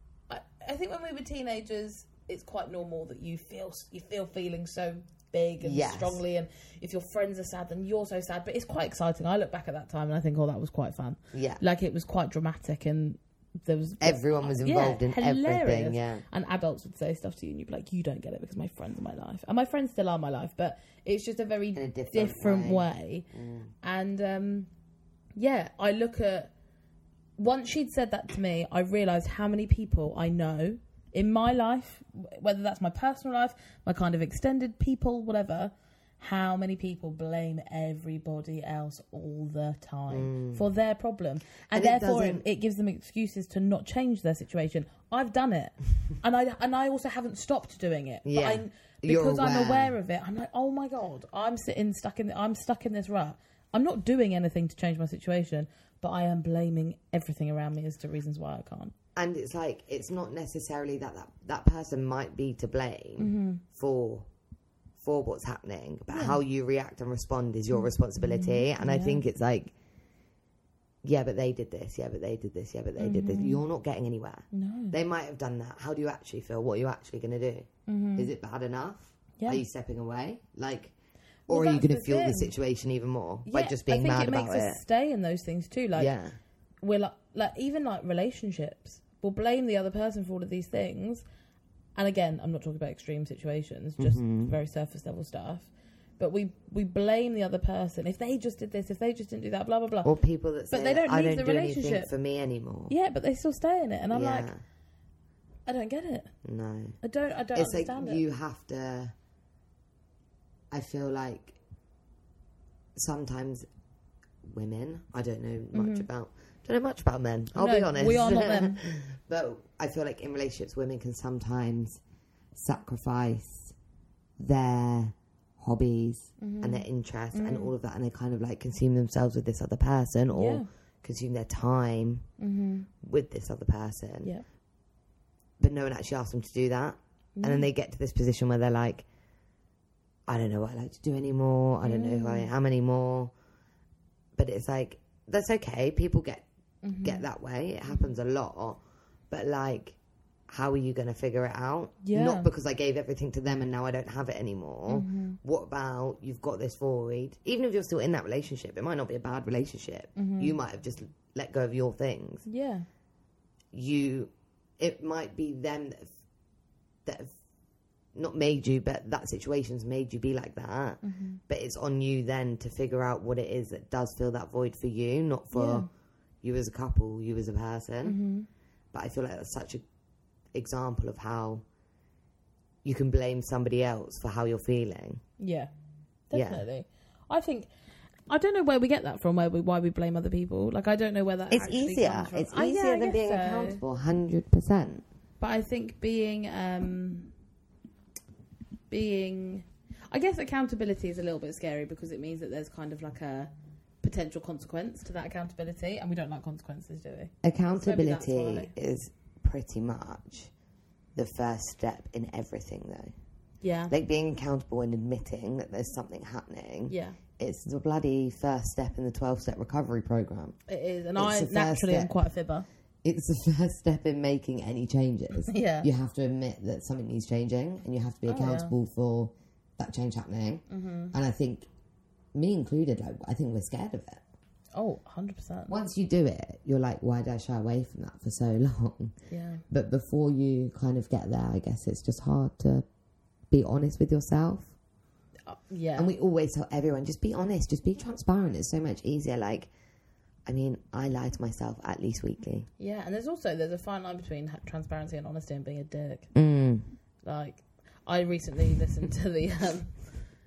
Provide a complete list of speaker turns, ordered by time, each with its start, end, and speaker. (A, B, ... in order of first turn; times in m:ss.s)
0:00.3-0:23.3 A
0:05.6-0:06.2 B
0:11.3-0:11.6 B
0:14.0-0:16.2 B
0:21.7-0:23.7 B
0:23.8-0:24.7 A
0:25.4-0:26.5 A
0:27.4-0:58.9 A
0:40.1-0:40.6 B
0:41.7-0:42.4 B
0:48.2-0:49.9 B
0:59.2-1:04.3 B
1:03.2-1:03.6 A
1:05.0-1:09.7 B
1:06.1-1:06.4 A
1:07.7-1:09.2 A
1:11.0-1:20.9 B
1:13.0-1:13.6 A
1:14.5-1:15.0 A
1:17.9-1:18.3 A
1:21.5-1:22.5 A
1:21.5-1:24.8 B
1:23.4-1:26.1 A
1:26.0-1:26.4 B
1:26.8-1:31.2 A
1:32.0-1:40.1 A
1:34.0-1:34.5 B
1:40.0-1:42.9 B
1:40.7-1:42.1 A
1:42.9-1:44.5 A
1:44.1-1:44.6 B
1:45.7-1:46.3 A
1:46.4-1:47.0 B
1:47.0-1:48.2 A
1:47.5-1:49.1 B
1:50.7-1:51.6 B
1:53.0-1:53.6 B
1:54.4-2:02.0 B
1:55.7-1:56.0 A
1:57.5-1:58.8 A
2:02.5-2:03.7 B
2:04.4-2:12.2 B
2:06.4-2:07.7 A
2:10.3-2:10.7 A
2:12.4-2:12.9 A
2:13.0-2:14.3 B
2:15.6-2:19.0 B
2:17.4-2:17.7 A
2:20.3-2:23.3 B
2:21.8-2:22.5 A
2:24.4-2:26.4 B
2:26.8-2:27.2 A
2:27.0-2:28.8 B
2:29.3-2:30.0 B
2:30.5-2:42.4 B
2:32.0-2:32.5 A
2:34.9-2:35.4 A
2:40.2-2:40.6 A
2:42.4-2:42.8 A
2:43.7-2:46.1 B
2:47.0-2:47.3 B
2:48.1-2:55.8 B
2:51.0-2:51.4 A
2:55.5-2:55.9 A
2:56.4-2:58.2 B
2:58.0-2:58.5 A
2:58.9-2:59.8 B
3:00.5-3:01.6 B
3:02.8-3:05.2 B
3:05.4-3:05.7 A
3:06.3-3:07.7 A
3:06.3-3:06.6 B
3:08.3-3:13.8 A
3:11.5-3:15.0 B
3:15.4-3:17.3 A
3:18.9-3:23.5 A
3:24.0-3:28.7 A
3:27.4-3:30.5 B
3:31.2-3:33.1 B
3:33.6-3:33.9 A
3:33.9-3:40.6 B
3:36.9-3:37.2 A
3:40.7-3:42.6 A
3:41.2-3:42.2 B
3:43.0-3:51.7 B
3:45.4-3:45.9 A
3:48.3-3:48.7 A
3:50.7-3:51.1 A
3:52.3-3:54.2 B
3:54.7-3:55.7 A
3:55.7-3:59.1 B
3:59.3-3:59.6 A
3:59.7-4:02.8 B
4:03.5-4:04.7 B
4:05.5-4:06.1 A
4:06.0-4:09.7 B
4:10.4-4:12.7 B
4:12.8-4:16.3 A
4:16.3-4:16.8 B
4:17.2-4:20.0 A